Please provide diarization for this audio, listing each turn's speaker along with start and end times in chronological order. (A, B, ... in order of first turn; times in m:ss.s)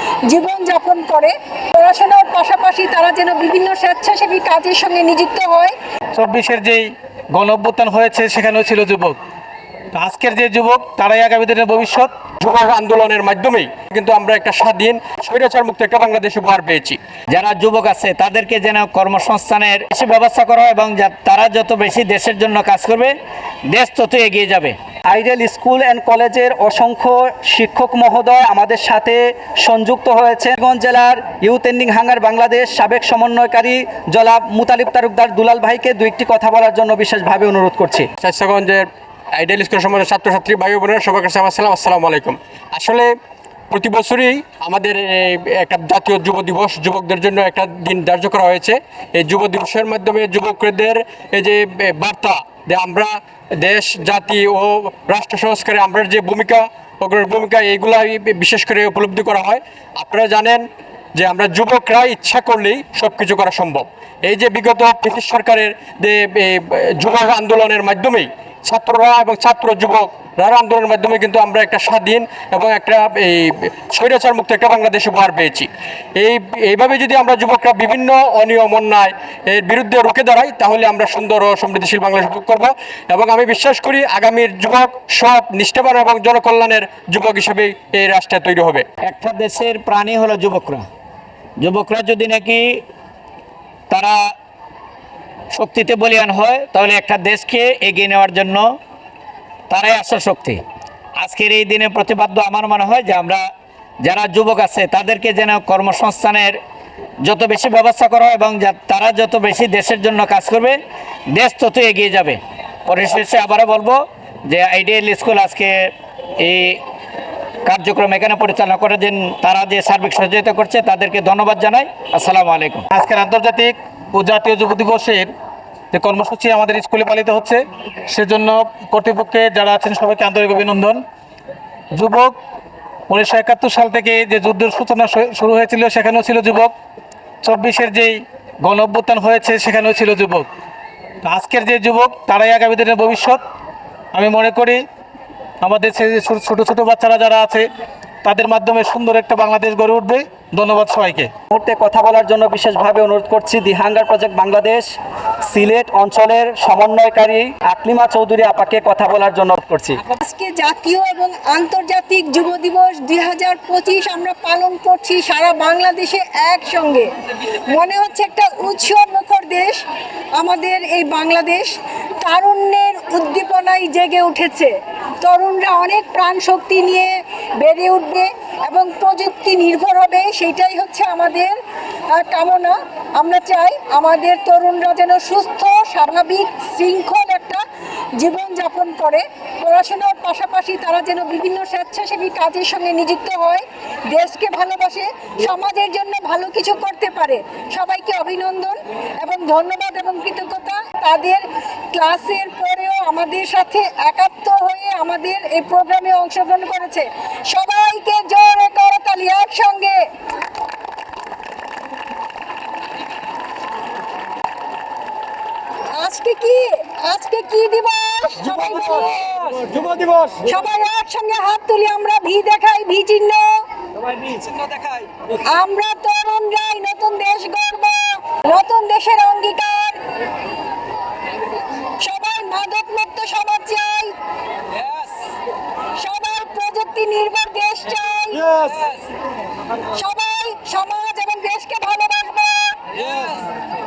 0:00.3-0:05.7 A
0:06.1-0:09.2 B
0:09.9-0:12.1 B
0:12.4-0:17.0 C
0:17.3-0:23.1 D
0:23.7-0:24.8 D
0:25.1-0:38.1 E
0:38.2-0:43.1 C
0:43.7-1:00.6 C
1:01.2-1:28.8 C
1:29.0-1:30.9 D
1:31.6-1:32.8 D
1:33.9-1:34.3 D
1:35.5-1:38.8 D
1:39.7-1:40.6 D
1:41.2-1:43.4 D
1:44.0-1:46.6 D
1:47.2-1:50.8 D
1:51.3-1:56.8 D
1:57.7-2:02.8 D
2:02.9-2:05.3 B
2:05.9-2:11.0 B
2:11.9-2:12.4 B
2:13.1-2:16.7 B
2:17.4-2:20.5 B
2:21.2-2:23.4 B
2:24.1-2:24.8 B
2:25.6-2:27.7 B
2:28.2-2:31.3 B
2:31.5-2:34.9 E
2:35.4-2:40.0 E
2:40.1-2:47.1 A
2:47.7-2:49.8 A
2:50.4-3:01.6 A
3:02.1-3:07.6 A
3:08.2-3:30.0 A
3:36.0-3:43.6 A
3:44.2-3:44.6 A
3:45.4-3:50.0 A
3:52.0-3:54.1 A
3:54.8-3:55.2 A
3:56.0-3:59.0 A
3:59.9-4:03.5 A